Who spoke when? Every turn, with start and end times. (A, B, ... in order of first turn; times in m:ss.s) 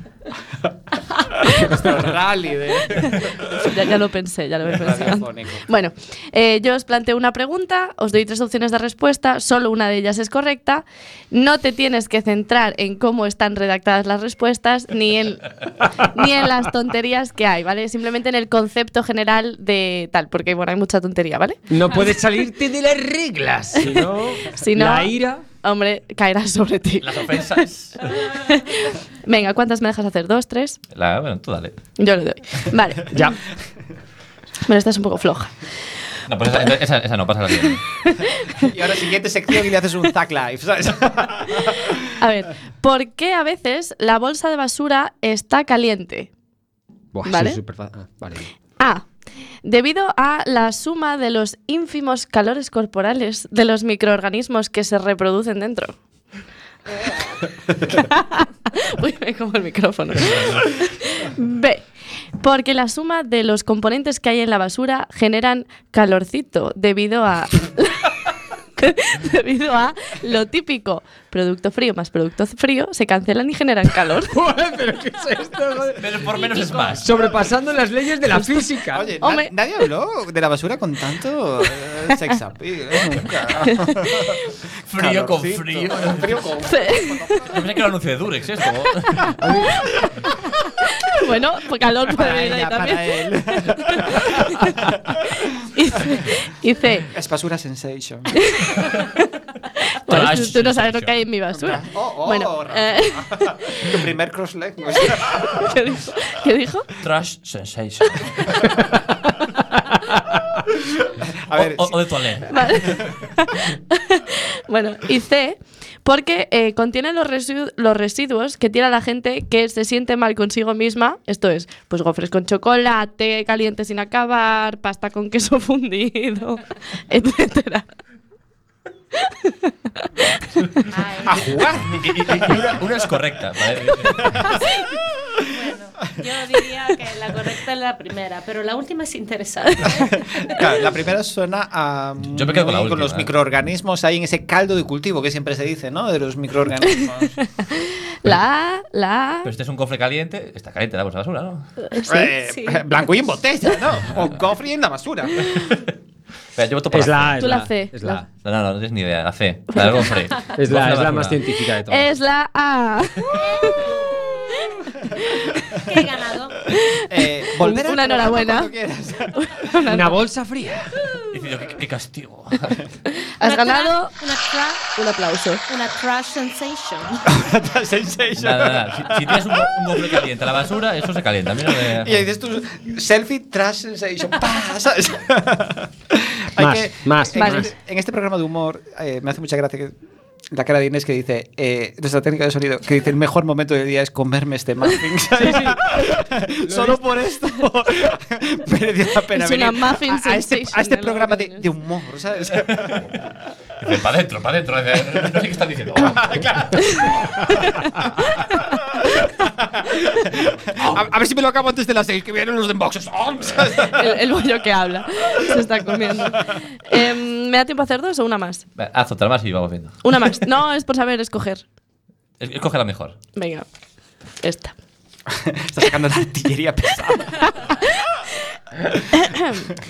0:01.4-0:03.7 A
0:03.6-0:21.6 B
0:04.7-0:05.6 A
0:21.7-0:25.4 C
0:23.8-0:30.8 B
0:27.0-0:28.0 D
0:30.9-0:31.7 D
0:32.0-0:33.3 B
0:33.1-0:33.4 C
0:34.6-0:35.5 B
0:36.3-0:37.8 D
0:38.1-0:38.6 B
0:38.5-0:42.0 A
0:42.2-0:46.3 B
0:47.1-0:48.5 C
0:47.2-0:47.6 B
0:48.8-0:49.1 B
0:49.6-0:55.9 B
0:57.9-1:01.8 B
1:02.4-1:08.1 B
1:08.8-1:14.3 B
1:14.2-1:16.0 C
1:16.0-1:17.1 D
1:16.9-1:19.1 C
1:18.3-1:18.6 B
1:18.9-1:27.7 A
1:19.2-1:19.5 B
1:24.9-1:26.5 D
1:26.7-1:27.4 B
1:27.5-1:29.4 D
1:29.2-1:34.7 B
1:29.4-1:29.8 C
1:32.1-1:35.4 A
1:35.7-1:37.1 B
1:37.1-1:38.3 A
1:38.4-1:39.2 B
1:39.9-1:43.5 B
1:40.1-1:41.2 D
1:41.5-1:45.7 A
1:45.5-1:46.9 B
1:47.0-1:48.7 D
1:51.5-1:52.0 A
1:51.5-1:53.1 D
1:52.5-2:07.9 B
2:09.3-2:10.0 B
2:10.9-2:11.5 E
2:11.2-2:12.8 A
2:11.9-2:14.3 D
2:15.4-2:20.7 E
2:20.0-2:27.4 A
2:22.2-2:23.3 D
2:27.4-2:29.5 B
2:29.4-2:31.6 D
2:31.9-2:32.3 B
2:32.0-2:35.5 A
2:32.5-2:32.8 E
2:35.5-2:35.9 D
2:36.6-2:37.4 D
2:36.9-2:38.2 C
2:37.4-2:38.2 B
2:38.4-2:41.4 D
2:39.7-2:40.1 B
2:40.6-2:42.1 C
2:41.9-2:43.9 B
2:44.7-2:45.6 B
2:45.8-2:46.6 E
2:46.7-2:47.0 B
2:47.1-2:49.5 A
2:47.5-2:48.7 B
2:49.3-2:50.2 B
2:49.9-2:50.9 C
2:51.3-2:52.8 D
2:53.1-2:54.1 B
2:53.4-2:54.8 E
2:55.0-2:55.6 B
2:55.7-2:57.2 E
2:57.3-2:59.4 A
2:58.4-3:02.2 D
3:01.8-3:09.9 A
3:06.6-3:07.7 C
3:07.4-3:07.7 B
3:10.5-3:23.2 A
3:15.4-3:15.8 C
3:16.6-3:17.0 C
3:19.3-3:21.6 B
3:22.5-3:23.0 D
3:23.8-3:26.2 D
3:26.0-3:27.5 A
3:26.8-3:29.3 B
3:28.9-3:34.2 A
3:33.9-3:38.6 B
3:35.5-3:36.4 A
3:38.8-3:40.0 D
3:40.0-3:41.6 B
3:42.4-3:43.2 D
3:43.4-3:43.6 B
3:44.4-3:44.7 B
3:45.3-3:47.7 A
3:47.6-3:47.9 B
3:49.1-3:49.7 B